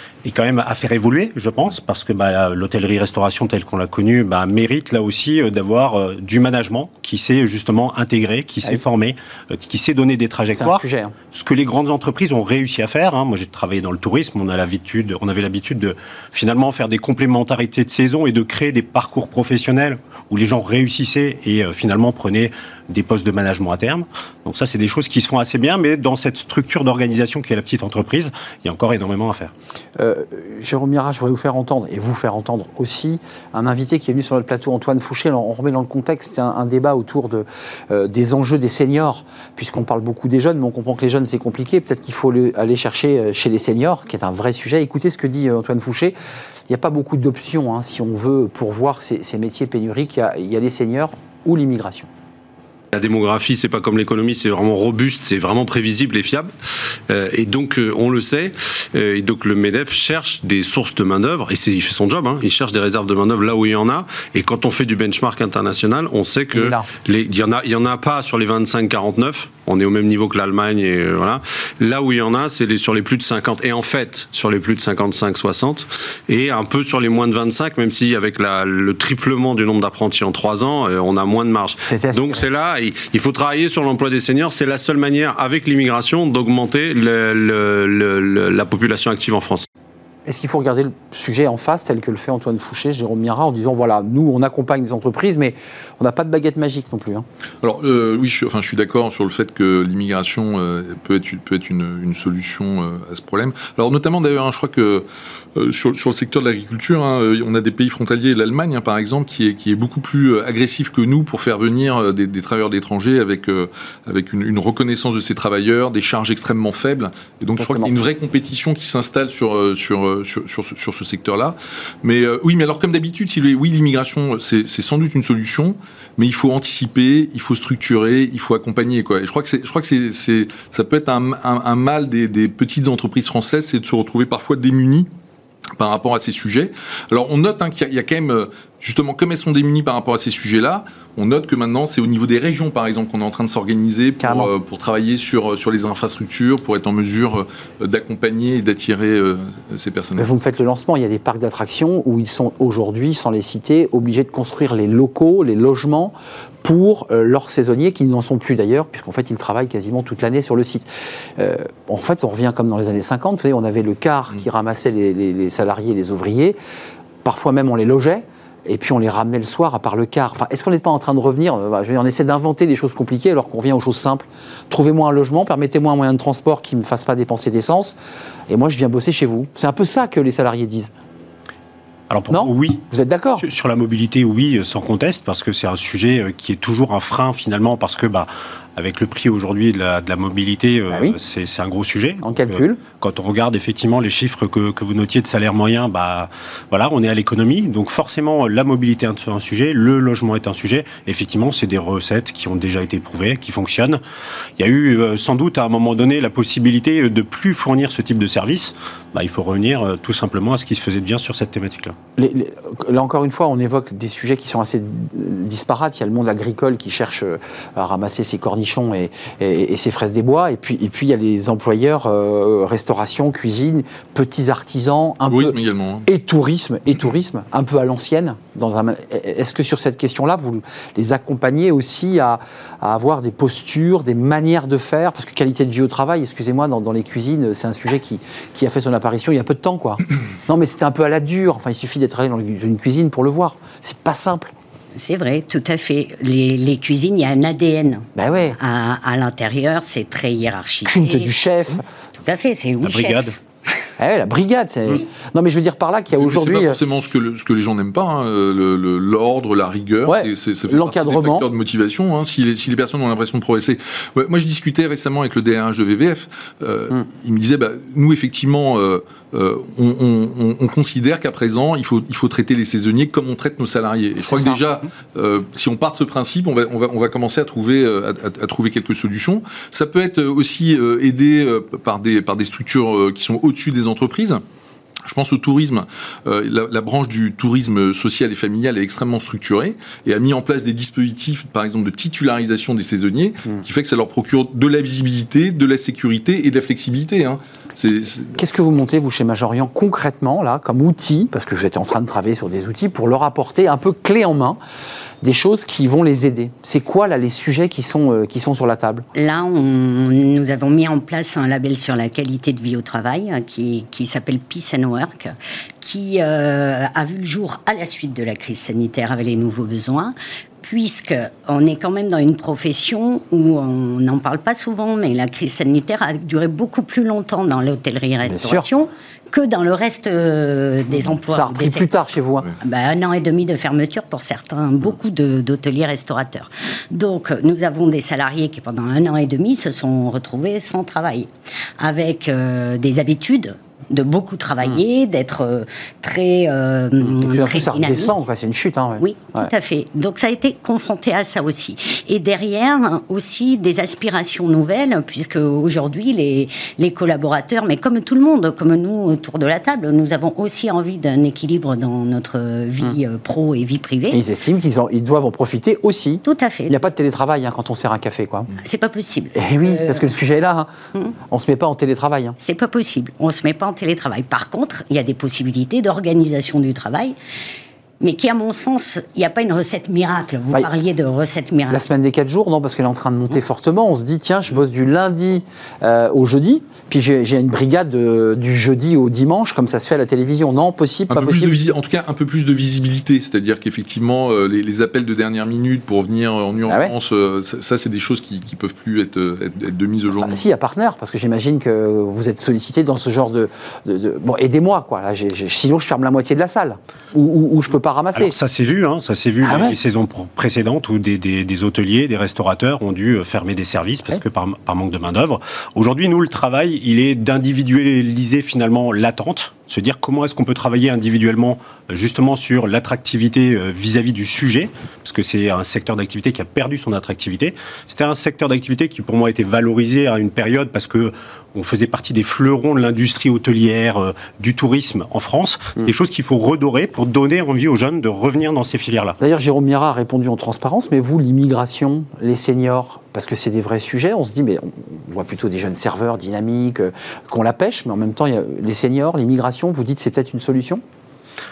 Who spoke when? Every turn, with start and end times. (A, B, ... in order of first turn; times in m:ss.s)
0:00.2-0:29.5 A
0:10.5-0:11.1 B
0:30.0-0:46.1 B
0:46.7-0:52.1 B
0:52.9-0:56.5 C
0:57.1-1:29.6 C
1:06.5-1:06.9 B
1:21.8-1:22.4 B
1:30.2-1:37.2 B
1:37.6-2:15.1 D
1:57.6-1:57.9 B
2:15.8-2:30.3 D
2:24.2-2:24.5 B
2:30.2-2:46.6 B
2:47.2-2:58.0 B
2:58.5-3:00.9 B
3:02.1-3:02.8 A
3:02.3-3:03.4 B
3:03.4-3:24.0 A
3:10.9-3:11.2 B
3:12.2-3:12.8 B
3:24.6-3:32.0 A
3:32.2-4:04.5 B
3:45.3-3:46.0 D
4:05.0-4:11.3 E
4:08.1-4:08.6 B
4:10.8-4:11.8 B
4:12.2-4:13.4 E
4:12.8-4:13.3 A
4:14.0-4:16.8 B
4:16.1-4:44.4 D
4:20.1-4:21.5 B
4:34.2-4:34.6 B
4:45.0-4:58.4 D
4:58.3-5:04.6 B
5:05.2-5:09.0 B
5:09.1-5:31.9 E
5:28.2-5:28.7 B
5:31.3-5:32.5 B
5:32.6-5:41.3 E
5:41.8-5:48.1 E
5:47.0-5:49.5 B
5:49.0-6:04.2 E
6:04.1-6:08.5 B
6:06.2-6:06.8 E
6:08.6-6:10.1 E
6:09.3-6:10.7 B
6:11.3-6:12.4 B
6:12.4-6:17.2 E
6:18.0-6:21.8 E
6:21.7-6:31.6 B
6:31.1-6:40.4 D
6:36.7-6:36.9 B
6:40.2-6:48.3 B
6:48.2-7:19.2 A
6:49.4-6:49.8 B
7:19.2-7:30.8 B